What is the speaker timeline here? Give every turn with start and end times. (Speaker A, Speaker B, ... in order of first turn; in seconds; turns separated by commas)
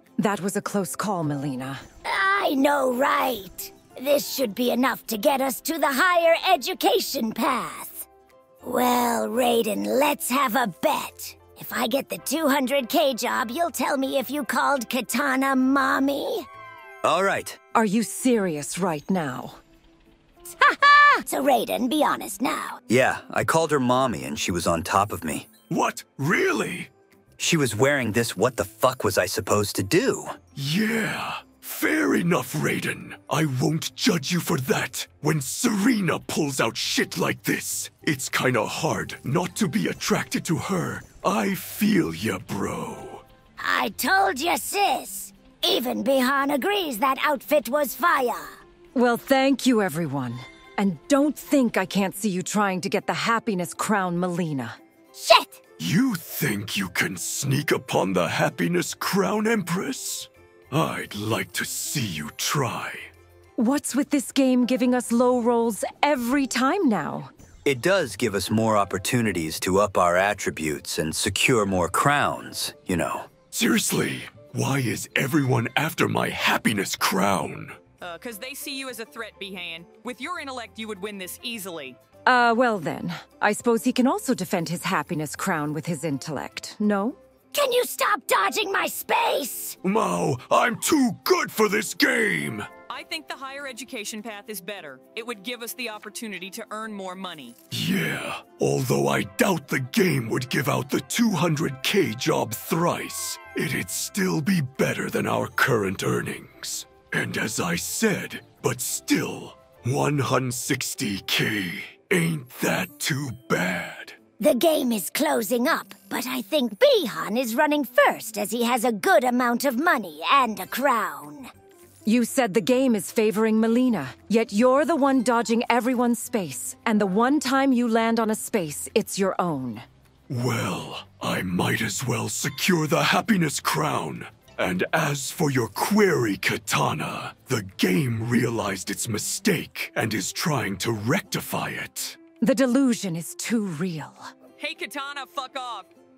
Speaker A: 0.2-1.8, Speaker B: 2.0-8.1, Speaker B: 8.6-16.4, Speaker C: 17.0-17.6, Speaker A: 17.7-19.6, Speaker B: 20.6-22.8, Speaker C: 22.9-25.5, Speaker D: 25.7-26.9, Speaker C: 27.4-30.4, Speaker D: 30.5-43.2, Speaker B: 43.6-48.6, Speaker A: 48.9-54.8, Speaker B: 55.1-55.6, Speaker D: 55.8-63.1, Speaker A: 63.6-67.3, Speaker C: 67.6-73.3, Speaker D: 73.5-77.8, Speaker E: 78.0-82.0, Speaker A: 82.2-87.2, Speaker B: 87.5-89.8, Speaker D: 89.8-92.7, Speaker E: 92.9-97.5, Speaker D: 97.7-114.2, Speaker B: 114.4-121.5, Speaker A: 122.0-129.8, Speaker D: 130.3-142.2, Speaker A: 142.4-144.3, Speaker E: 144.6-145.9